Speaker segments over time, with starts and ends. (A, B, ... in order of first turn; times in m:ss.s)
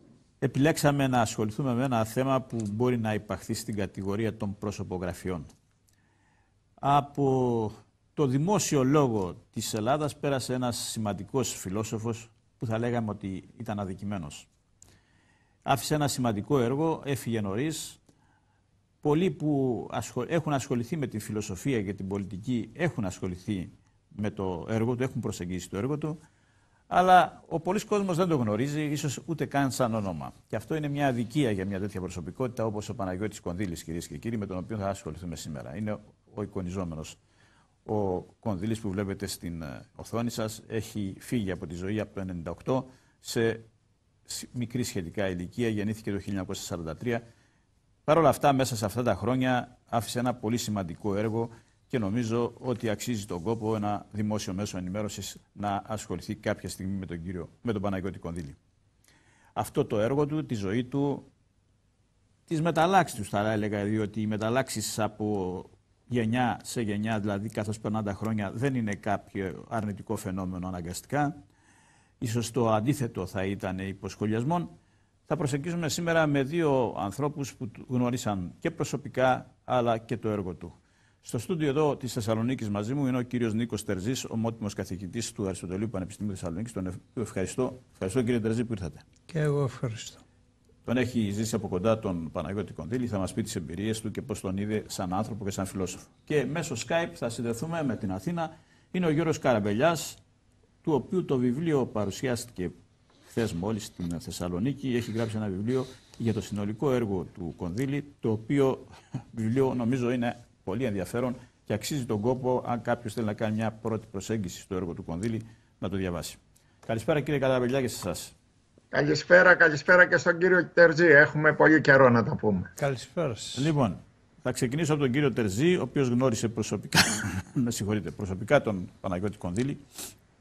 0:00.4-0:05.5 A
0:06.8-0:14.5 A
0:15.6-0:18.0 A
0:19.0-0:26.2 A
0:26.9-0:37.2 A
0:37.8-0:43.6 A
0:44.3-0:47.2 A
0:48.0-0:58.6 A
0:59.6-1:01.3 A
1:02.5-1:11.4 A
1:12.2-1:14.7 A
1:15.3-1:29.0 A
1:29.3-1:30.2 B
1:30.8-1:40.2 A
1:40.8-1:42.7 A
1:43.3-1:58.3 A
1:58.9-2:02.7 C
2:02.8-2:03.7 B
2:03.6-2:09.8 A